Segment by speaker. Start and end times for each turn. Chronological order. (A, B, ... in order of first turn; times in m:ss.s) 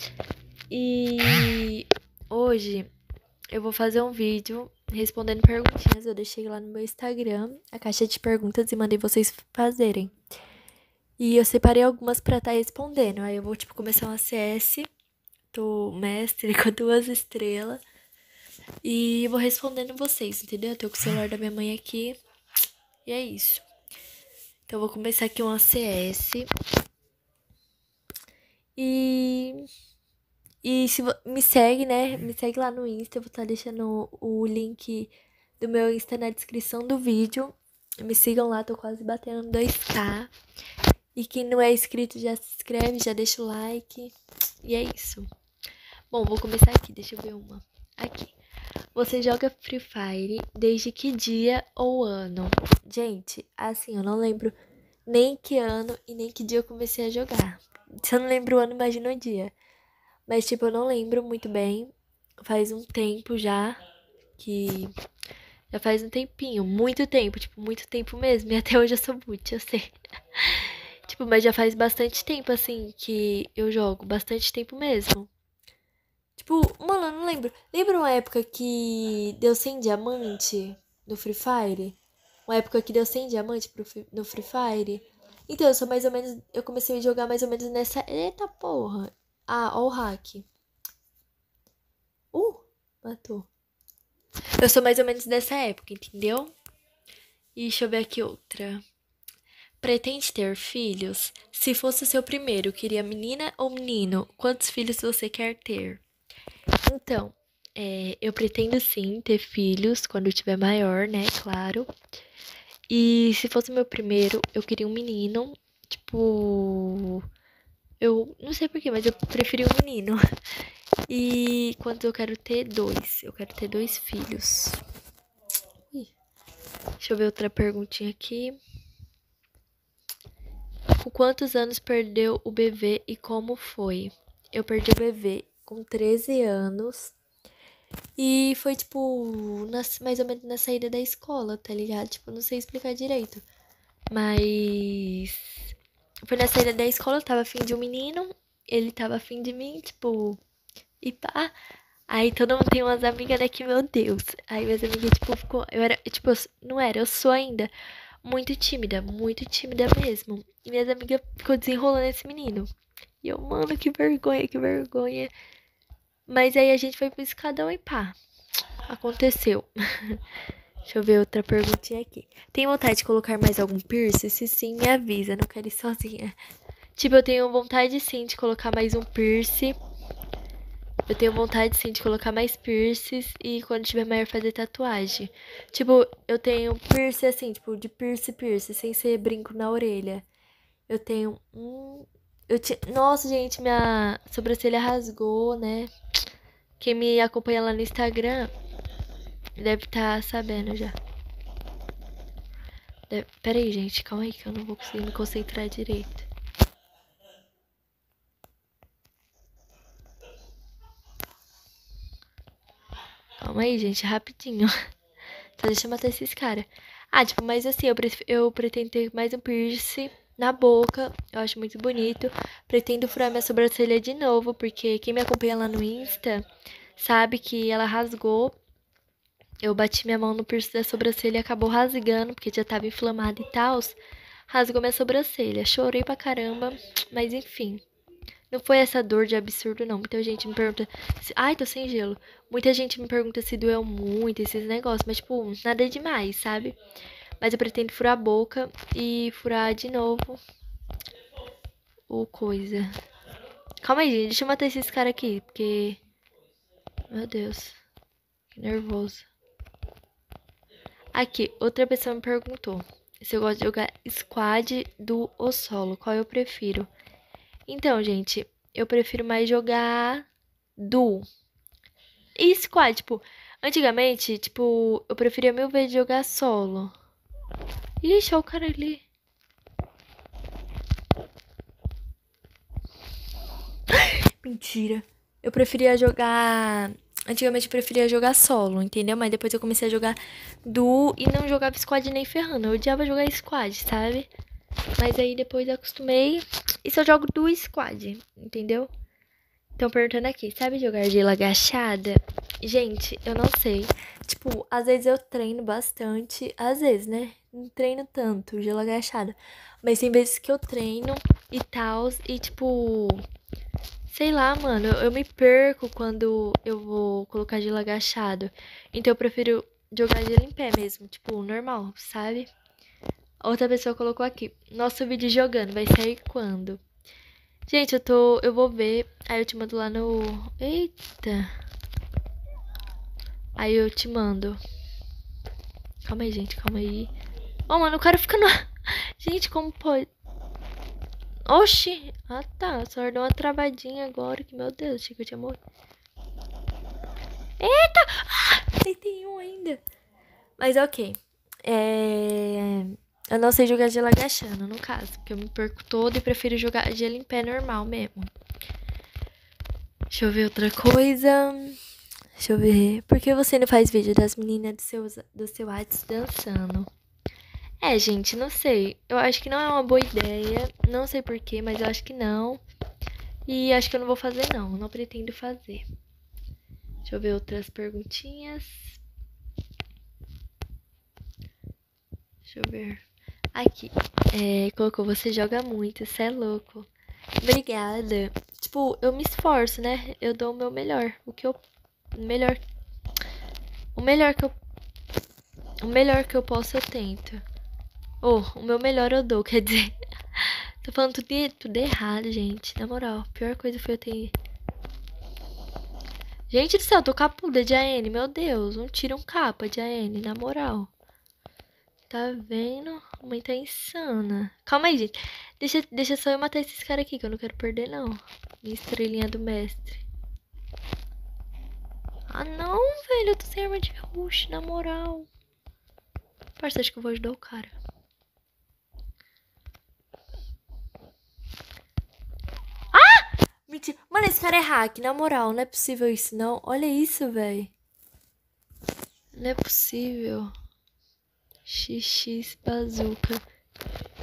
0:00.7-0:02.9 A
0:03.5-0:10.1 A
0:11.2-0:14.9 A
0:15.5-0:17.8 A
0:18.8-0:22.2 A
0:23.0-0:23.7 A
0:24.7-0:26.5 A
0:28.8-0:29.6 A
0:30.6-0:40.3 A
0:41.2-0:45.3 A
0:46.1-0:48.4 A
0:49.0-0:54.5 A
0:55.1-0:59.5 A
1:00.3-1:01.9 A
1:02.4-1:03.8 A
1:04.4-1:04.9 A
1:05.7-1:15.3 A
1:16.4-1:30.5 A
1:32.3-1:33.5 A
1:34.6-1:36.5 A
1:37.6-1:38.8 A
1:39.8-1:46.0 A
1:46.8-1:51.9 A
1:52.9-1:57.2 A
1:58.0-2:00.2 A
2:01.1-2:04.8 A
2:07.0-2:08.6 A
2:11.0-2:17.2 A
2:18.2-2:23.4 A
2:24.1-2:25.7 A
2:26.3-2:30.4 A
2:31.0-2:31.5 A
2:32.1-2:37.7 A
2:38.2-2:42.7 A
2:43.2-2:45.3 A
2:46.3-2:48.2 A
2:48.9-2:50.2 A
2:50.9-2:56.4 A
2:57.0-2:59.8 A
3:01.1-3:10.2 A
3:10.9-3:15.9 A
3:16.8-3:18.5 A
3:19.6-3:21.0 A
3:23.1-3:26.3 A
3:33.4-3:34.7 A
3:35.6-3:46.4 A
3:47.0-3:48.6 A
3:49.6-3:54.0 A
3:54.5-3:57.8 A
3:58.5-4:06.8 A
4:07.4-4:10.4 A
4:12.1-4:13.0 A
4:13.8-4:16.0 A
4:17.1-4:17.8 A
4:18.5-4:19.3 A
4:21.2-4:26.9 A
4:27.7-4:30.3 A
4:30.8-4:31.3 A
4:32.4-4:37.0 A
4:38.0-4:39.0 A
4:43.9-4:54.3 A
4:55.0-4:58.9 A
4:59.8-5:13.2 A
5:14.1-5:22.5 A
5:23.4-5:26.8 A
5:27.7-5:31.5 A
5:33.6-5:34.6 A
5:36.0-5:37.2 A
5:37.7-5:40.1 A
5:41.5-5:45.6 A
5:47.6-5:49.8 A
5:50.6-5:58.3 A
6:00.1-6:01.8 A
6:02.4-6:06.9 A
6:07.8-6:12.6 A
6:13.5-6:15.8 A
6:17.0-6:19.0 A
6:22.5-6:23.0 A
6:23.6-6:26.9 A
6:27.4-6:31.6 A
6:32.1-6:32.6 A
6:34.0-6:34.6 A
6:35.8-6:37.4 A
6:38.2-6:44.4 A
6:46.5-6:50.9 A
6:52.1-7:00.0 A
7:02.3-7:05.3 A
7:06.6-7:07.8 A
7:12.9-7:17.7 A
7:19.4-7:20.5 A
7:21.7-7:23.4 A